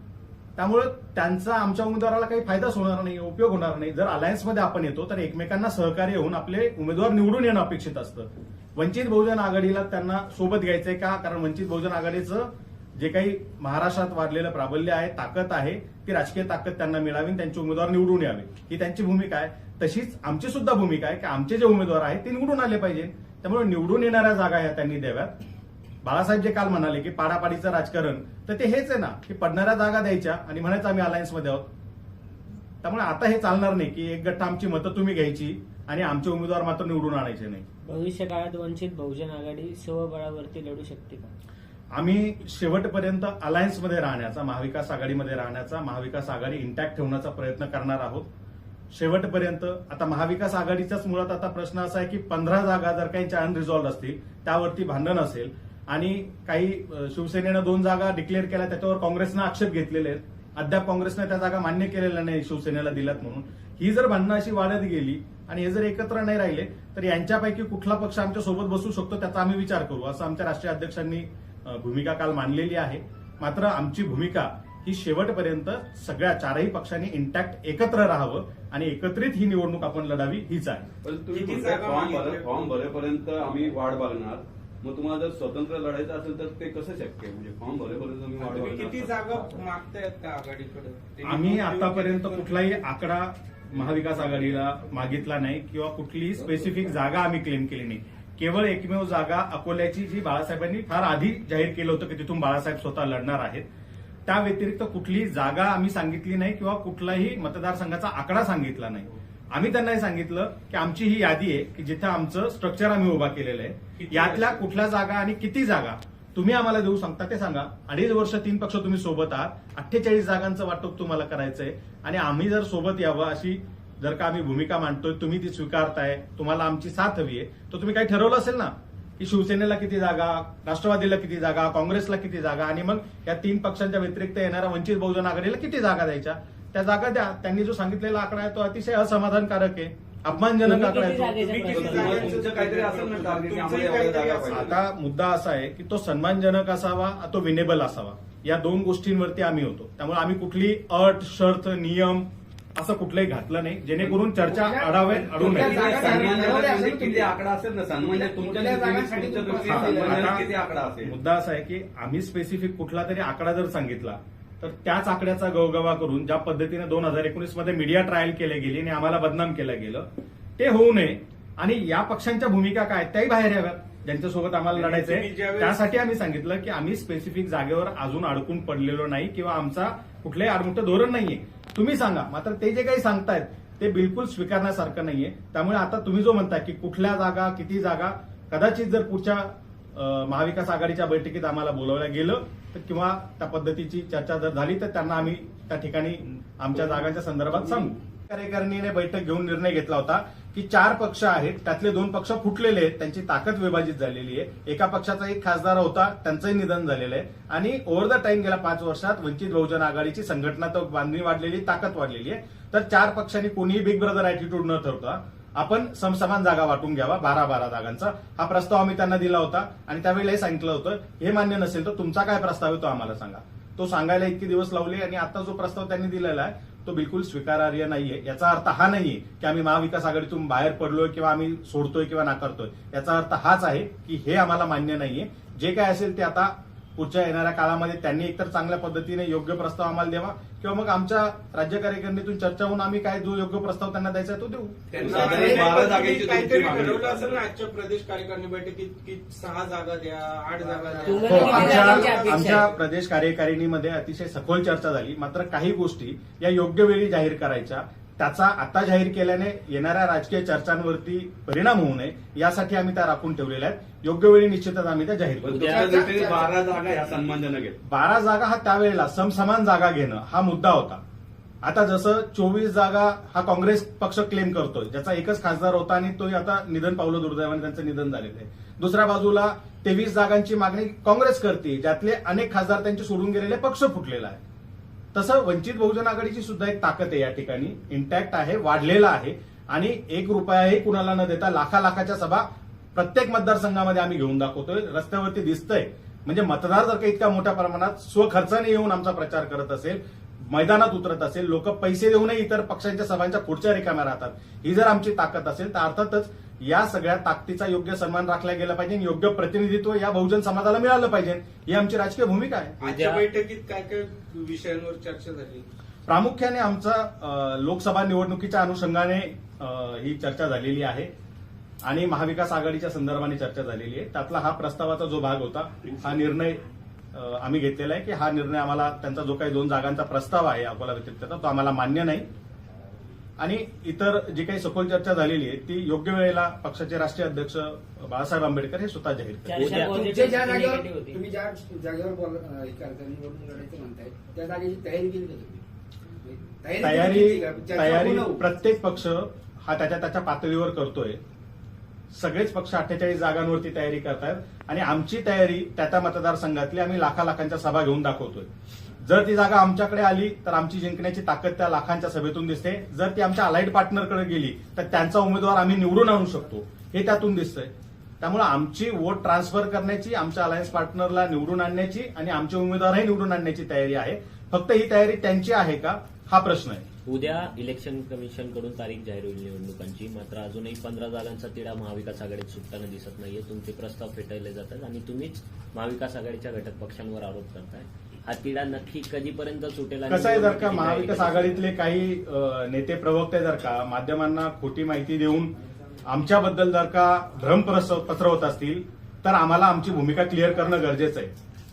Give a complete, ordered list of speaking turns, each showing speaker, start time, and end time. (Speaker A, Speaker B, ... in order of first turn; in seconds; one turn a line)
Speaker A: 0.6-25.3
Speaker A: 26.0-31.6
Speaker A: 32.8-37.6
Speaker B: 37.8-41.3
Speaker A: 41.9-48.3
Speaker A: 48.9-80.9
Speaker C: 81.0-89.4
Speaker D: 81.3-82.7
Speaker D: 88.4-92.8
Speaker A: 91.2-103.7
Speaker C: 94.0-94.5
Speaker A: 104.3-142.2
Speaker D: 114.0-114.6
Speaker B: 140.6-142.0
Speaker D: 141.5-144.7
Speaker C: 141.7-144.8
Speaker A: 144.5-156.1
Speaker E: 154.4-157.4
Speaker C: 155.3-161.1
Speaker E: 158.0-160.4
Speaker A: 159.7-160.5
Speaker A: 161.0-170.1
Speaker A: 170.6-245.3
Speaker D: 174.7-175.8
Speaker C: 244.9-247.4
Speaker D: 244.9-252.8
Speaker E: 245.3-245.8
Speaker E: 250.6-252.3
Speaker B: 251.1-252.6
Speaker A: 251.2-265.7
Speaker F: 265.4-266.0
Speaker C: 265.4-267.8
Speaker E: 265.5-266.6
Speaker A: 267.9-271.0
Speaker A: 271.6-284.4
Speaker A: 285.1-312.8
Speaker F: 312.8-313.3
Speaker D: 312.8-315.6
Speaker A: 316.1-321.1
Speaker A: 321.8-326.6
Speaker A: 327.1-332.2
Speaker A: 333.4-339.9
Speaker B: 339.5-341.2
Speaker F: 339.5-340.0
Speaker E: 339.7-345.6
Speaker D: 340.0-340.7
Speaker E: 346.2-348.5
Speaker A: 346.8-351.2
Speaker A: 352.1-358.5
Speaker A: 359.0-367.7
Speaker A: 368.2-376.9
Speaker F: 377.1-391.6
Speaker A: 390.1-395.5
Speaker A: 396.0-401.3